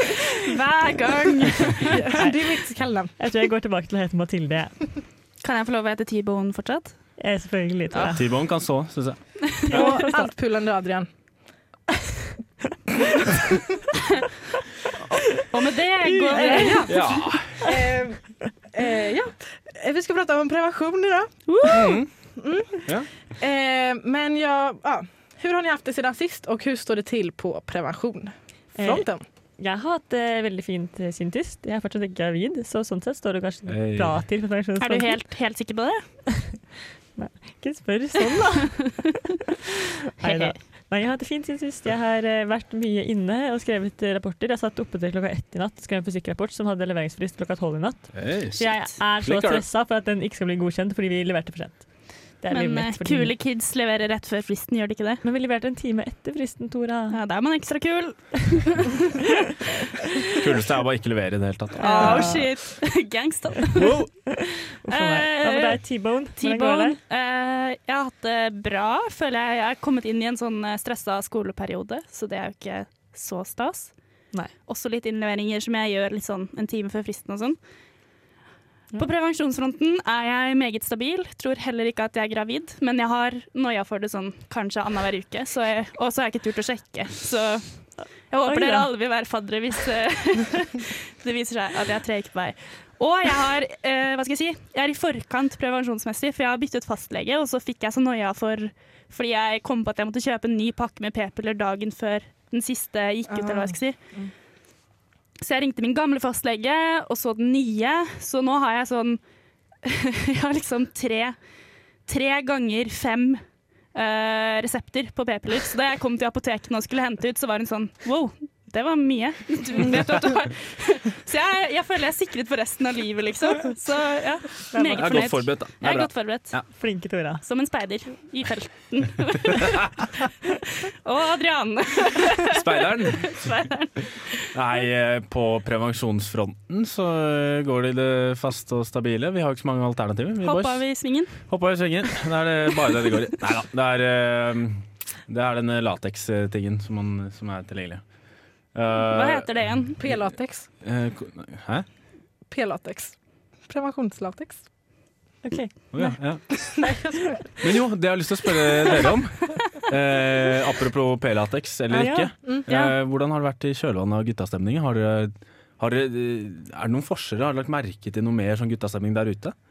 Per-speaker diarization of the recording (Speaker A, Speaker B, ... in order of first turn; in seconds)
Speaker A: 0.5-1.9, 5.4-7.2, 15.5-17.2, 21.5-21.9, 34.8-36.0, 40.2-40.6, 52.5-55.2, 57.1-58.7, 61.8-77.6, 78.9-104.3, 105.4-129.6, 131.0-134.2, 140.4-141.8, 149.1-150.0, 162.7-162.9
Speaker B: 1.9-3.1, 9.6-11.1, 16.4-21.7, 22.4-29.2, 103.3-104.3, 150.0-150.7, 152.4-154.7, 156.0-157.6
Speaker C: 2.2-5.0, 7.2-8.2, 9.7-10.3, 16.1-17.5, 28.7-35.5, 37.1-39.1, 40.2-53.4, 55.2-57.6, 61.8-62.9, 63.8-67.0, 88.2-89.0, 124.7-125.4, 126.7-127.4, 155.4-157.3, 161.9-162.3
Speaker D: 8.1-9.8, 16.9-17.6, 21.7-22.3, 22.8-23.1, 33.6-34.5, 48.1-49.6, 60.4-62.5, 124.9-126.9, 132.5-133.8, 134.5-151.9, 155.9-156.9, 157.6-169.6